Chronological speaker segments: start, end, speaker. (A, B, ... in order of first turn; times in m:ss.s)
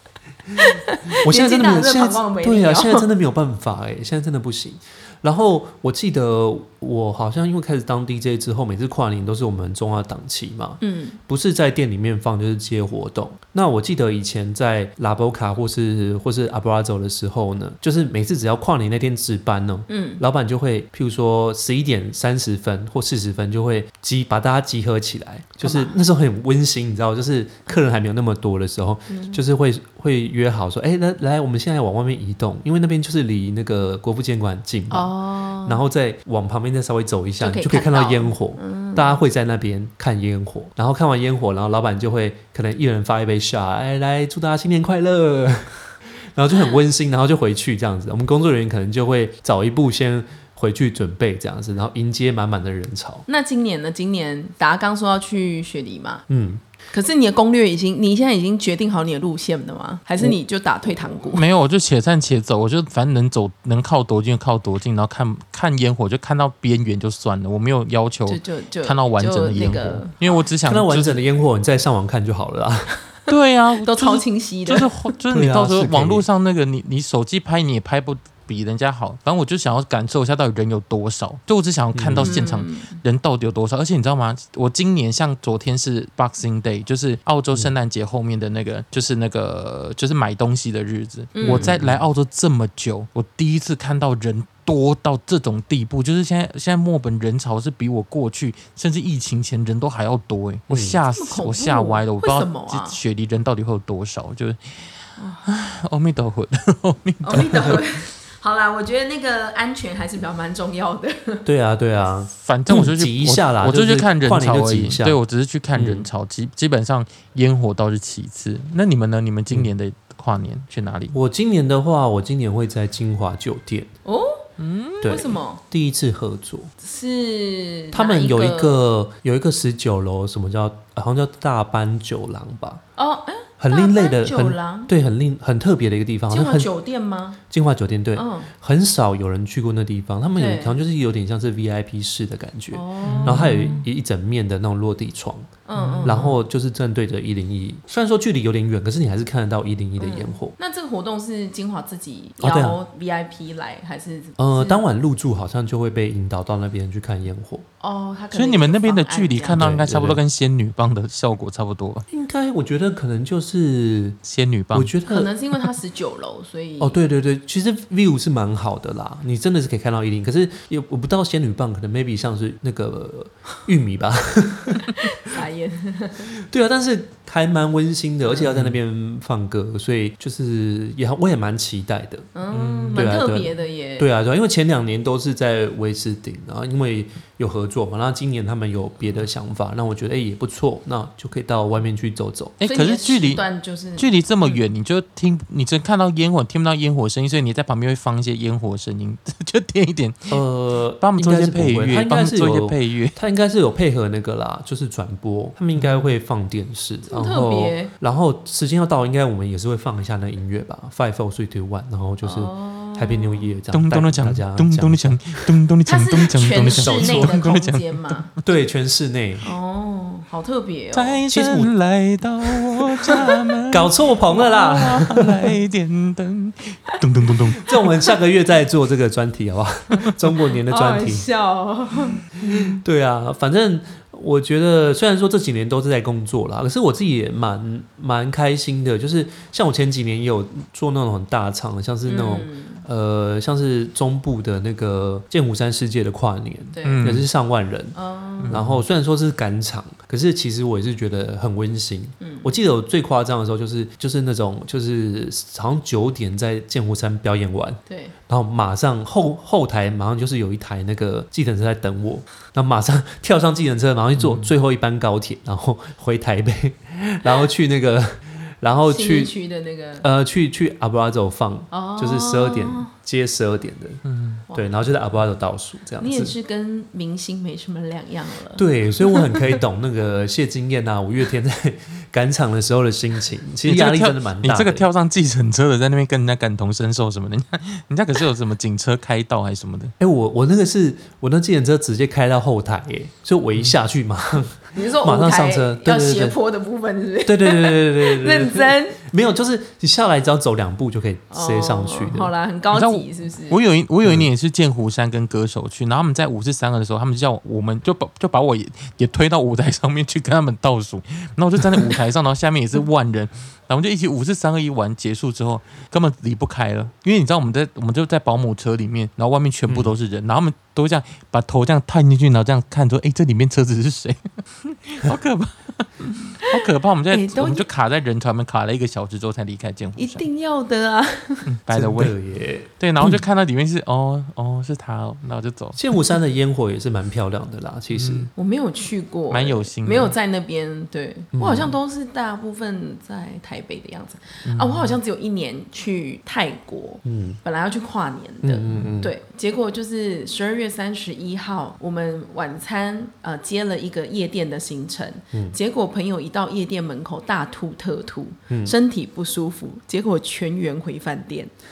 0:00.5-0:35.1 A
0:00.6-0:03.1 B
0:10.8-0:11.2 B
0:19.9-0:20.2 B
0:25.6-0:26.0 B
0:29.1-0:29.4 B
0:34.9-0:35.8 B
0:35.6-0:45.8 A
0:37.4-0:39.2 B
0:46.3-0:53.2 A
0:53.3-0:56.2 B
0:56.3-0:56.6 A
0:56.9-1:01.4 B
1:01.3-1:11.2 C
1:08.3-1:10.4 B
1:10.6-1:12.9 A
1:13.3-1:44.6 C
1:13.8-1:14.9 B
1:15.3-1:16.2 A
1:21.9-1:22.4 A
1:22.2-1:23.0 B
1:31.3-1:31.8 B
1:31.4-1:32.0 A
1:40.7-1:41.0 A
1:41.1-1:43.0 B
1:45.2-1:45.5 B
1:45.4-1:47.8 C
1:47.2-1:51.4 B
1:47.4-1:47.8 A
1:51.4-1:55.2 A
1:52.4-2:01.1 C
1:55.7-1:56.1 A
2:01.1-2:03.9 A
2:04.0-2:04.4 B
2:04.6-2:05.2 C
2:05.0-2:06.7 A
2:05.0-2:05.6 B
2:06.8-2:08.8 B
2:07.9-2:12.8 A
2:13.0-2:14.9 B
2:13.6-2:16.7 A
2:16.3-2:17.4 B
2:17.5-2:30.5 A
2:18.1-2:18.5 B
2:20.4-2:20.8 B
2:22.7-2:23.8 B
2:23.0-2:23.8 C
2:25.7-2:26.4 B
2:25.8-2:26.1 C
2:30.0-2:34.8 B
2:32.4-2:32.8 A
2:34.4-2:37.6 A
2:37.8-2:39.6 B
2:38.3-2:42.0 C
2:39.5-2:40.2 A
2:42.1-2:44.2 A
2:44.2-2:44.9 C
2:44.7-2:45.3 A
2:45.1-2:47.0 B
2:46.8-2:54.9 A
2:54.7-2:56.3 B
2:56.4-3:02.3 A
2:58.5-2:58.8 C
3:02.3-3:04.1 B
3:02.5-3:03.1 C
3:02.9-3:12.6 A
3:12.6-3:13.4 C
3:12.6-3:14.6 B
3:14.0-3:20.4 C
3:20.3-3:35.5 A
3:21.0-3:23.2 C
3:25.8-3:26.1 C
3:27.1-3:27.9 B
3:32.2-3:33.5 B
3:33.7-3:38.2 C
3:35.8-3:38.3 B
3:36.6-3:37.4 A
3:38.4-3:39.4 A
3:39.4-3:41.2 B
3:40.9-3:47.8 C
3:41.3-3:41.7 A
3:42.5-3:45.6 A
3:47.6-3:51.2 A
3:50.7-3:52.2 B
3:52.4-4:07.9 A
4:02.0-4:02.8 B
4:06.7-4:07.1 B
4:06.8-4:07.2 C
4:07.9-4:08.6 B
4:08.4-4:08.8 C
4:08.5-4:29.3 A
4:12.2-4:12.5 B
4:17.9-4:18.1 B
4:24.2-4:24.5 C
4:28.9-4:30.0 B
4:30.0-4:34.0 A
4:31.7-4:32.9 B
4:34.0-4:34.4 C
4:34.5-4:34.8 B
4:34.5-4:36.3 A
4:36.0-4:39.5 B
4:38.6-4:44.9 A
4:43.6-4:49.9 C
4:50.0-4:56.4 A
4:54.7-4:59.0 B
4:57.2-5:02.3 A
5:01.3-5:03.6 B
5:02.7-5:30.2 C
5:19.7-5:19.9 A
5:27.1-5:27.6 B
5:30.0-5:31.5 B
5:31.5-5:32.2 C
5:31.7-5:33.2 A
5:32.8-5:35.8 C
5:35.8-5:38.3 A
5:37.9-5:38.3 C
5:38.4-6:01.5 B
5:39.3-5:40.1 C
5:41.3-5:41.8 A
5:44.4-5:45.0 C
5:47.0-5:47.4 A
5:48.4-5:49.1 A
5:58.5-5:58.7 A